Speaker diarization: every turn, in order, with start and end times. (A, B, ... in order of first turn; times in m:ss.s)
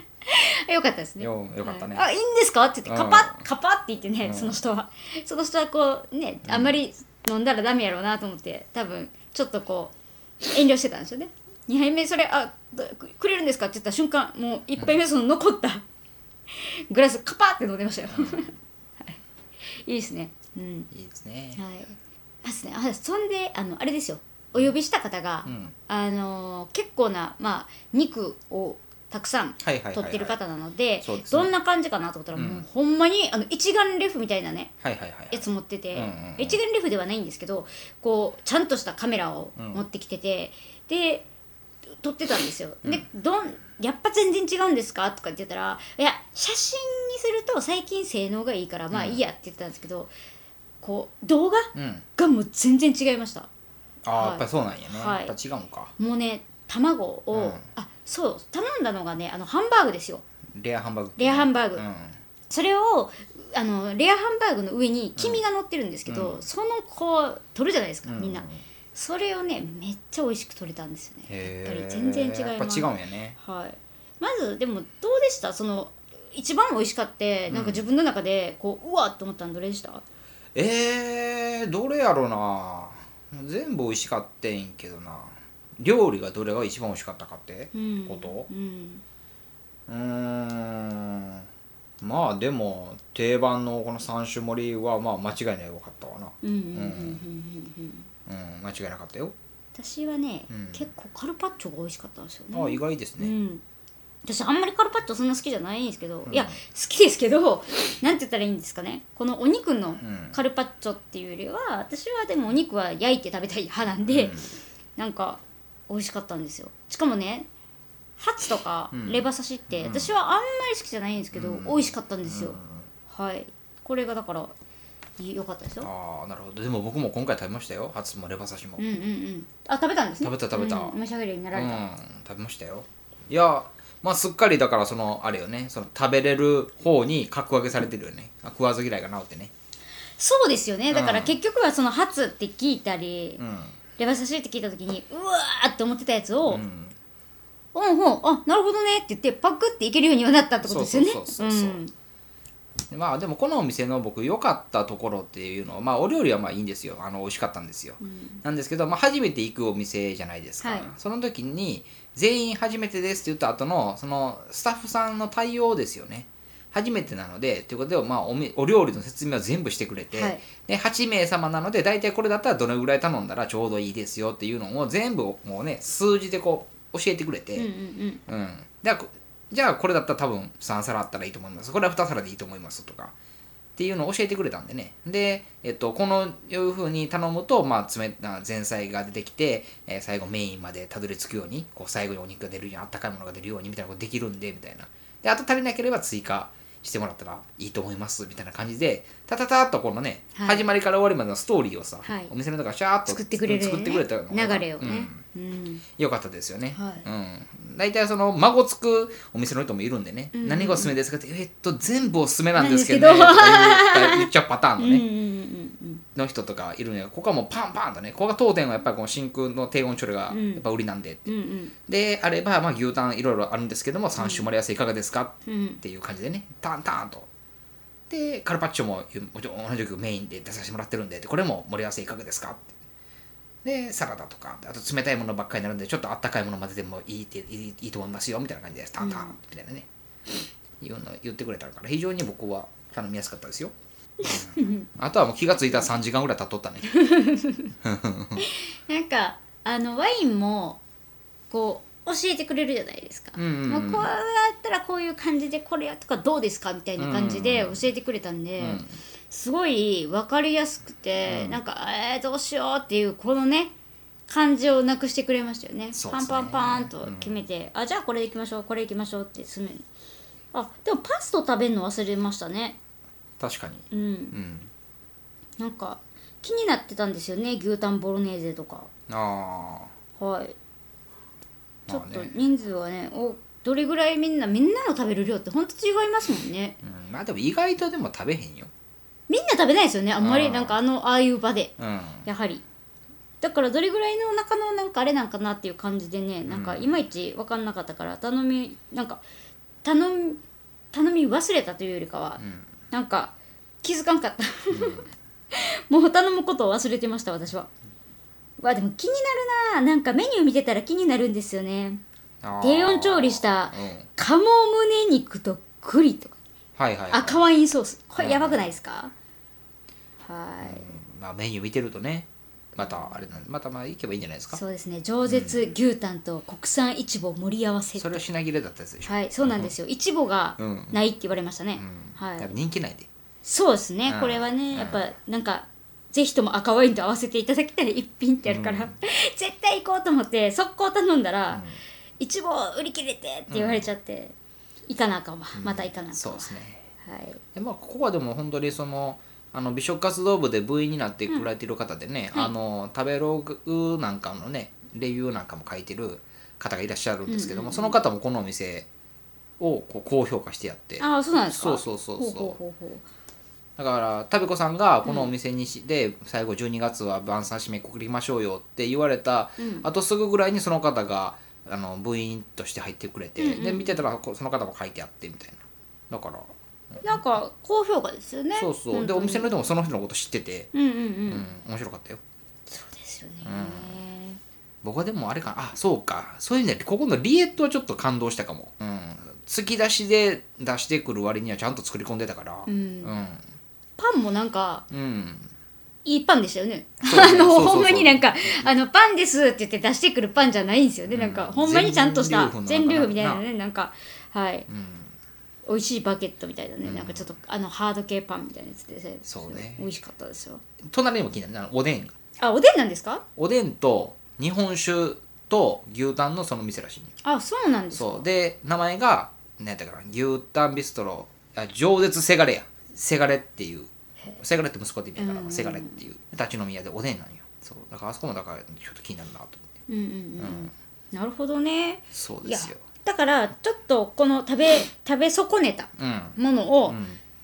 0:00.2-0:09.9 A
0:01.2-0:02.1 B
0:02.8-0:03.4 B
0:04.2-0:04.6 B
0:06.4-0:06.8 B
0:10.5-0:15.8 A
0:16.5-0:19.2 A
0:18.1-0:18.4 B
0:19.8-0:20.9 A
0:20.9-0:21.6 B
0:21.6-0:34.7 A
0:25.4-0:25.8 B
0:29.6-0:30.3 B
0:31.0-0:31.5 B
0:32.3-0:32.6 B
0:34.8-0:36.6 B
0:35.3-0:41.2 A
0:39.6-0:39.8 B
0:42.0-0:50.1 A
0:48.9-0:49.2 B
0:50.8-0:53.5 A
0:51.8-0:52.0 B
0:54.0-0:55.9 B
0:54.2-0:55.3 A
0:56.0-1:00.2 A
0:57.3-0:57.6 B
1:00.5-1:02.2 B
1:01.2-1:01.8 A
1:02.5-1:20.0 A
1:05.2-1:05.4 B
1:06.1-1:06.4 B
1:08.0-1:08.6 B
1:11.3-1:13.4 B
1:17.5-1:17.8 B
1:20.5-1:28.5 B
1:27.7-1:29.0 A
1:29.9-1:31.5 B
1:32.0-1:37.2 B
1:36.4-1:38.1 A
1:38.3-1:39.3 B
1:39.8-1:43.6 A
1:40.5-1:40.9 B
1:42.5-1:43.3 B
1:44.2-1:57.5 A
1:46.3-1:46.6 B
1:50.0-1:50.4 B
1:54.1-1:54.5 B
1:58.2-2:02.6 A
1:58.9-2:00.1 B
2:01.3-2:02.9 B
2:03.1-2:04.5 A
2:05.2-2:05.9 A
2:05.8-2:08.9 B
2:08.8-2:11.8 A
2:10.2-2:11.0 B
2:11.5-2:19.5 B
2:20.2-2:23.4 A
2:20.9-2:21.4 B
2:23.4-2:23.8 B
2:24.0-2:26.6 A
2:26.5-2:27.0 B
2:27.7-2:31.9 A
2:30.6-2:31.8 B
2:32.9-2:57.7 B
2:38.0-2:38.4 A
2:40.6-2:40.9 A
2:50.1-2:50.4 A
2:57.6-2:58.2 A
2:58.3-3:03.1 B
3:03.8-3:25.2 B
3:20.4-3:20.6 A
3:22.0-3:22.3 A
3:23.1-3:25.8 A
3:26.0-3:35.1 B
3:26.7-3:27.0 A
3:30.4-3:31.0 A
3:32.6-3:36.0 A
3:36.2-3:41.3 B
3:40.3-3:40.6 A
3:41.2-3:41.7 A
3:41.9-3:47.3 B
3:44.2-3:44.5 A
3:45.4-3:45.8 A
3:48.1-3:52.8 B
3:53.6-3:59.9 B
3:59.0-3:59.4 A
4:00.8-4:03.7 B
4:04.2-4:04.9 A
4:04.2-4:07.0 B
4:06.9-4:07.7 A
4:07.8-4:08.4 B
4:08.4-4:10.8 A
4:11.5-4:23.7 A
4:13.4-4:14.1 B
4:17.0-4:17.9 B
4:18.6-4:18.9 B
4:21.2-4:21.6 B
4:24.3-4:29.8 A
4:25.9-4:27.4 B
4:30.5-4:32.8 A
4:33.4-4:34.7 B
4:33.9-4:34.4 A
4:35.6-4:38.9 A
4:39.1-4:39.9 B
4:40.2-4:40.5 A
4:41.9-4:42.3 B
4:41.9-4:46.8 A
4:46.8-4:48.7 B
4:49.3-4:51.7 A
4:50.2-4:50.8 B
4:51.8-4:52.3 B
4:52.2-4:52.6 A
4:53.4-4:59.2 A
4:56.5-4:57.0 B
4:59.8-5:00.4 A
5:00.9-5:07.7 A
5:02.4-5:02.7 B
5:04.7-5:05.1 B
5:08.6-5:12.0 A
5:12.4-5:14.1 B
5:12.6-5:16.4 A
5:16.8-5:17.4 B
5:17.1-5:19.1 A
5:18.2-5:18.7 B
5:20.2-5:21.0 A
5:20.6-5:24.6 B
5:22.8-5:23.1 A
5:24.5-5:28.3 A
5:25.2-5:25.6 B
5:28.0-5:29.7 B
5:29.0-5:32.5 A
5:30.6-5:31.0 B
5:31.8-5:33.1 B
5:33.4-5:41.6 A
5:34.1-5:35.0 B
5:38.4-5:38.9 B
5:41.5-5:41.8 B
5:42.2-5:44.4 A
5:43.5-5:43.9 B
5:44.9-5:47.4 A
5:45.6-5:46.8 B
5:47.5-5:58.9 B
5:57.3-5:58.0 A
5:59.6-6:02.6 B
6:01.0-6:03.0 A
6:03.8-6:17.2 B
6:05.0-6:05.3 A
6:09.6-6:09.9 A
6:13.4-6:14.0 A
6:17.0-6:19.5 A
6:18.5-6:20.7 B
6:20.7-6:21.4 A
6:21.3-6:22.2 B
6:22.7-6:24.4 A
6:23.4-6:24.0 B
6:24.8-6:33.4 B
6:32.7-6:33.2 A
6:34.0-6:34.9 A
6:34.9-6:35.5 B
6:36.0-6:44.6 A
6:37.0-6:38.7 B
6:41.1-6:43.4 B
6:44.7-6:45.1 B
6:45.6-6:50.6 A
6:46.8-6:47.3 B
6:49.2-6:49.8 B
6:50.9-6:52.1 B
6:52.4-6:53.2 A
6:53.4-6:57.1 B
6:57.2-6:58.3 A
6:57.9-7:09.6 B
7:05.2-7:06.0 A
7:09.9-7:17.0 A
7:10.4-7:10.7 B
7:12.1-7:12.8 B
7:16.0-7:17.2 B